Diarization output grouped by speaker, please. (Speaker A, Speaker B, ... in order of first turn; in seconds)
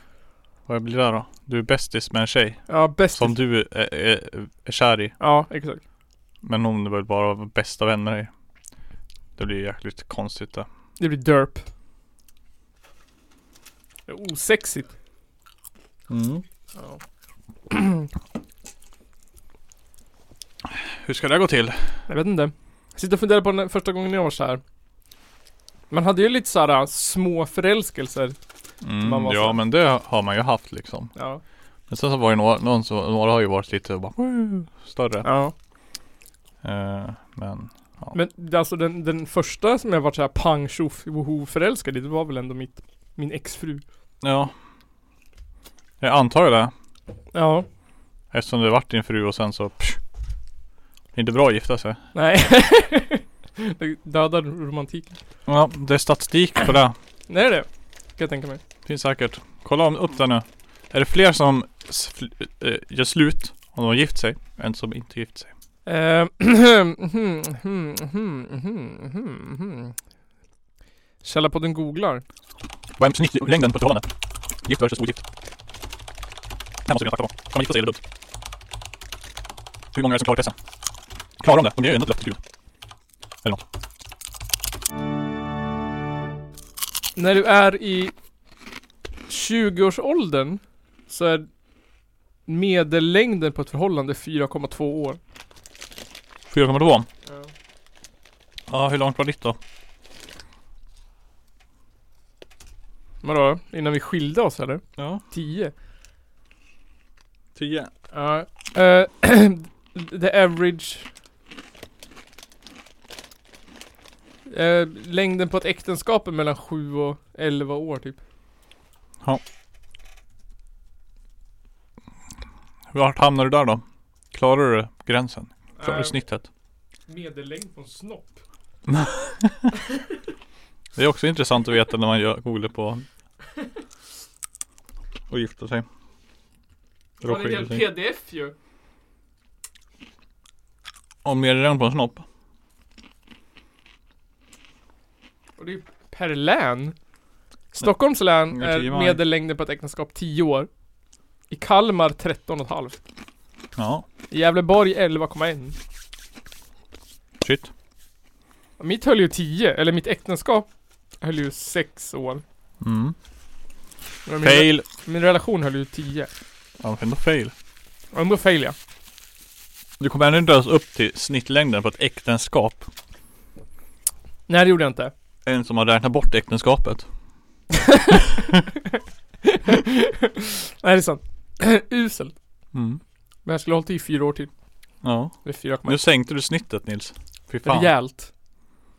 Speaker A: 0.7-5.2, 6.4-8.3, 9.4-10.7, 16.1-16.4, 20.6-22.1, 28.8-31.1, 31.9-35.3, 36.6-38.2, 44.2-44.5, 46.0-46.7, 48.3-50.0, 51.1-52.0, 55.5-57.0, 58.9-65.5, 73.0-74.1, 74.6-75.2, 76.9-78.0, 79.9-80.5, 81.4-82.4, 96.5-97.1, 98.7-99.6, 105.0-105.2, 107.5-107.9, 122.9-126.5, 128.9-129.7, 131.0-133.1, 135.3-135.8, 137.2-137.9, 141.2-142.2, 148.5-149.2, 153.8-154.1, 157.4-157.7, 162.8-163.2, 164.4-164.9, 166.8-167.5, 170.0-172.9, 175.5-177.1, 182.7-183.0, 185.0-187.9
Speaker B: 2.7-3.4, 5.2-5.8, 11.0-11.7, 14.1-14.9, 16.8-17.0, 17.7-18.1, 22.1-24.6, 25.9-28.4, 29.0-29.6, 31.2-31.4, 35.2-35.5, 38.1-43.8, 47.3-47.7, 52.1-55.2, 57.3-58.6, 65.9-70.0, 71.2-72.2, 87.2-88.1, 89.3-91.5, 92.5-95.2, 103.2-105.7, 108.1-111.1, 114.5-118.2, 125.8-126.2, 127.1-128.4, 137.2-138.5, 145.6-147.0, 147.7-150.7, 151.5-153.0, 154.3-155.8, 158.8-160.7, 161.2-162.4, 164.3-166.3, 168.1-168.8, 174.5-175.1, 177.9-178.2, 179.5-182.3, 183.5-184.5, 185.4-186.0, 187.6-188.3